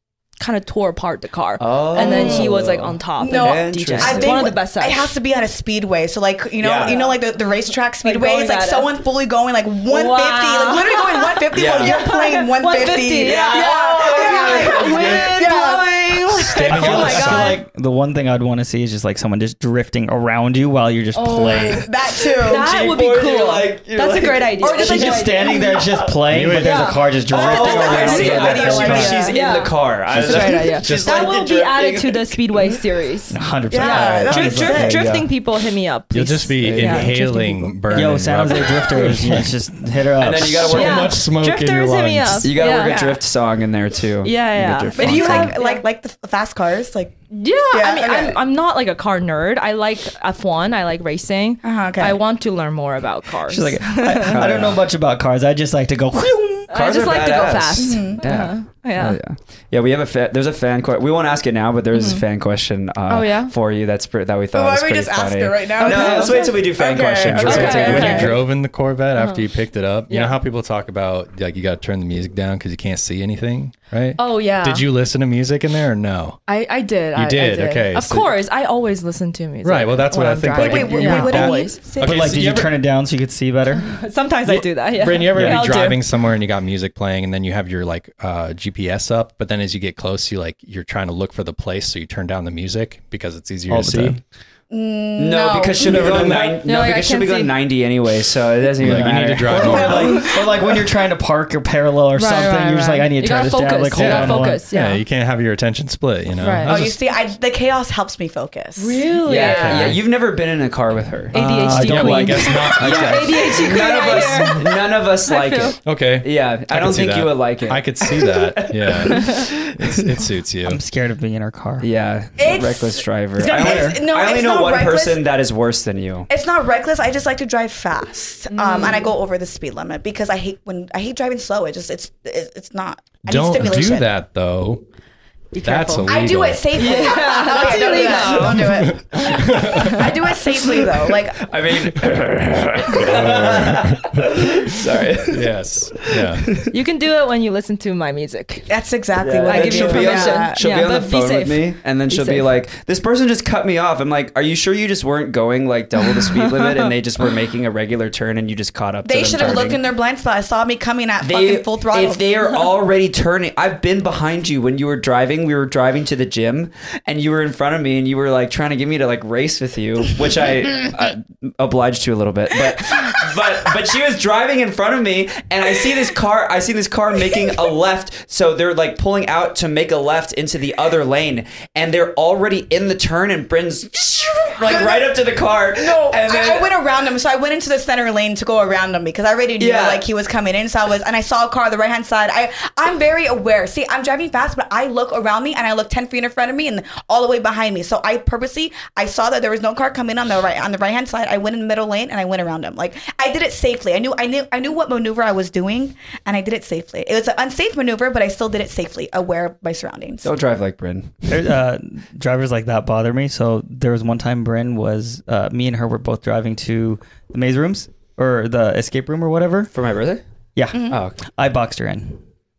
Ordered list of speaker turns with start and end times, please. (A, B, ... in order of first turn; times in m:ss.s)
0:00.4-0:05.1 A
0:01.6-0:04.5 B
0:01.9-0:02.6 C
0:03.2-0:15.9 C
0:06.6-0:07.1 B
0:08.0-0:08.9 A
0:09.9-0:17.6 A
0:11.5-0:12.0 B
0:13.2-0:15.5 B
0:16.4-0:17.6 D
0:16.7-0:21.9 E
0:21.2-0:21.8 A
0:21.2-0:22.9 C
0:22.4-0:25.8 A
0:22.4-0:24.6 B
0:24.5-0:26.1 C
0:24.8-0:29.2 E
0:26.3-0:27.0 D
0:26.5-0:27.0 A
0:27.3-0:29.4 C
0:27.3-0:32.8 B
0:27.8-0:28.5 A
0:29.2-0:37.7 A
0:30.1-0:31.3 D
0:33.3-0:35.2 E
0:33.7-0:35.0 C
0:34.8-0:35.3 B
0:36.1-0:39.5 D
0:36.6-0:37.2 B
0:37.9-0:40.9 E
0:40.2-0:41.2 B
0:40.6-0:42.6 D
0:40.7-0:43.0 A
0:42.4-0:45.5 B
0:42.7-0:43.2 C
0:44.2-0:45.8 A
0:44.8-0:45.5 D
0:44.9-0:47.2 C
0:47.3-0:54.4 A
0:47.7-0:48.4 C
0:51.6-0:52.2 C
0:53.5-0:56.7 E
0:53.6-0:54.8 B
0:56.7-0:59.2 A
0:56.7-1:08.4 B
0:57.8-0:58.2 C
1:01.9-1:02.2 A
1:03.1-1:03.5 A
1:04.5-1:08.3 C
1:05.8-1:06.6 A
1:07.2-1:16.4 D
1:07.4-1:08.4 A
1:09.1-1:09.4 A
1:10.1-1:10.4 A
1:14.2-1:14.9 A
1:16.5-1:21.8 A
1:17.1-1:18.3 D
1:19.6-1:22.8 D
1:20.5-1:22.4 C
1:22.0-1:24.0 E
1:23.8-1:26.0 A
1:24.4-1:34.2 D
1:25.3-1:25.7 E
1:33.7-1:34.2 E
1:34.7-1:36.6 C
1:35.2-1:40.2 B
1:35.8-1:36.5 D
1:36.6-1:37.6 A
1:38.8-1:40.2 D
1:38.8-1:44.6 E
1:39.9-1:40.5 A
1:39.9-1:40.3 C
1:42.2-1:45.0 A
1:43.9-1:47.0 D
1:46.4-1:46.8 A
1:46.6-1:49.0 C
1:48.8-1:50.0 A
1:49.2-2:00.2 B
1:49.3-1:50.0 D
1:51.3-1:55.8 A
1:51.3-1:54.5 D
1:55.8-2:00.8 D
2:00.6-2:01.9 E
2:01.8-2:06.3 B
2:02.4-2:05.2 C
2:06.3-2:14.1 C
2:08.5-2:09.1 A
2:13.2-2:14.8 D
2:15.5-2:16.2 A
2:15.6-2:16.7 D
2:16.0-2:21.4 C
2:16.7-2:20.0 A
2:17.5-2:18.7 B
2:18.6-2:20.1 D
2:20.8-2:26.7 B
2:22.9-2:26.5 D
2:26.7-2:28.7 A
2:28.7-2:30.6 C
2:29.2-2:39.8 B
2:29.4-2:32.5 A
2:36.2-2:36.9 A
2:39.0-2:42.4 C
2:41.2-3:06.7 B
3:04.6-3:30.3 C
3:09.6-3:10.0 B
3:30.2-3:31.4 B
3:31.3-3:39.7 E
3:39.7-3:40.2 B
3:40.6-3:42.2 E
3:40.7-3:41.0 C
3:40.9-3:41.2 B